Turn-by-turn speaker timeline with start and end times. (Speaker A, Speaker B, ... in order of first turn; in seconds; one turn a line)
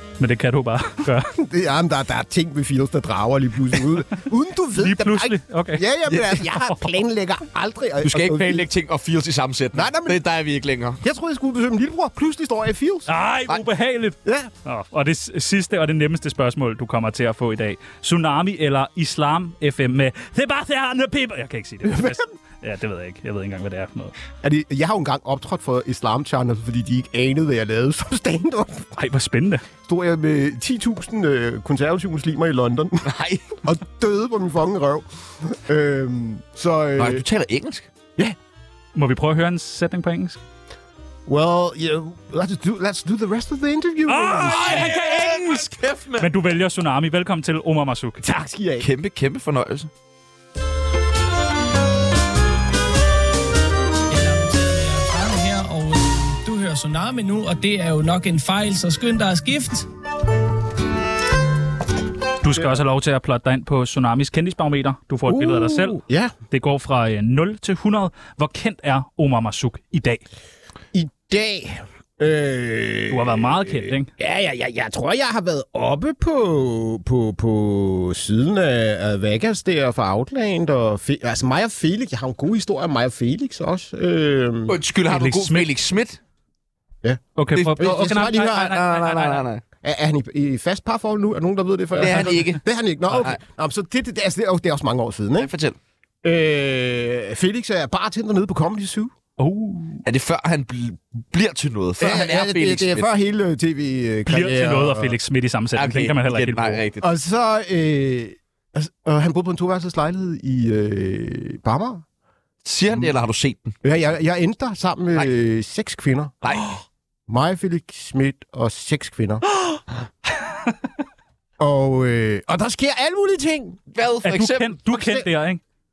Speaker A: 0.2-1.3
Speaker B: 1.3-8.7
Speaker A: 4.8-5.8
Speaker C: 6.1-6.4
Speaker C: 8.0-11.0
Speaker B: 9.7-10.2
Speaker B: 11.0-13.1
Speaker A: 13.1-24.1
Speaker B: 14.2-14.5
Speaker B: 21.9-22.2
Speaker B: 24.4-28.9
Speaker A: 28.9-29.6
Speaker B: 29.8-33.1
Speaker C: 33.0-33.6
Speaker B: 33.6-37.2
Speaker C: 37.0-37.9
Speaker A: 38.9-40.4
Speaker B: 41.2-44.9
Speaker A: 44.1-48.2
Speaker C: 44.4-46.3
Speaker B: 48.2-48.9
Speaker C: 48.8-49.9
Speaker D: 54.1-59.9
Speaker A: 62.4-66.0
Speaker B: 65.2-66.3
Speaker A: 66.5-70.2
Speaker B: 70.9-84.8
Speaker A: 73.1-74.1
Speaker C: 84.7-86.2
Speaker A: 85.1-85.7
Speaker A: 87.3-89.5
Speaker C: 87.5-87.9
Speaker B: 87.8-88.8
Speaker C: 88.5-89.6
Speaker B: 89.8-95.5
Speaker C: 92.0-92.6
Speaker C: 95.4-95.8
Speaker B: 96.2-99.1
Speaker A: 99.4-100.0
Speaker C: 100.0-103.1
Speaker B: 102.0-105.1
Speaker A: 104.3-106.8
Speaker C: 105.7-107.1
Speaker B: 107.0-112.0
Speaker C: 112.6-113.7
Speaker B: 113.8-116.5
Speaker C: 116.4-116.8
Speaker B: 117.3-119.8
Speaker B: 121.6-123.8
Speaker C: 123.9-124.8
Speaker A: 124.2-125.6
Speaker B: 124.9-125.3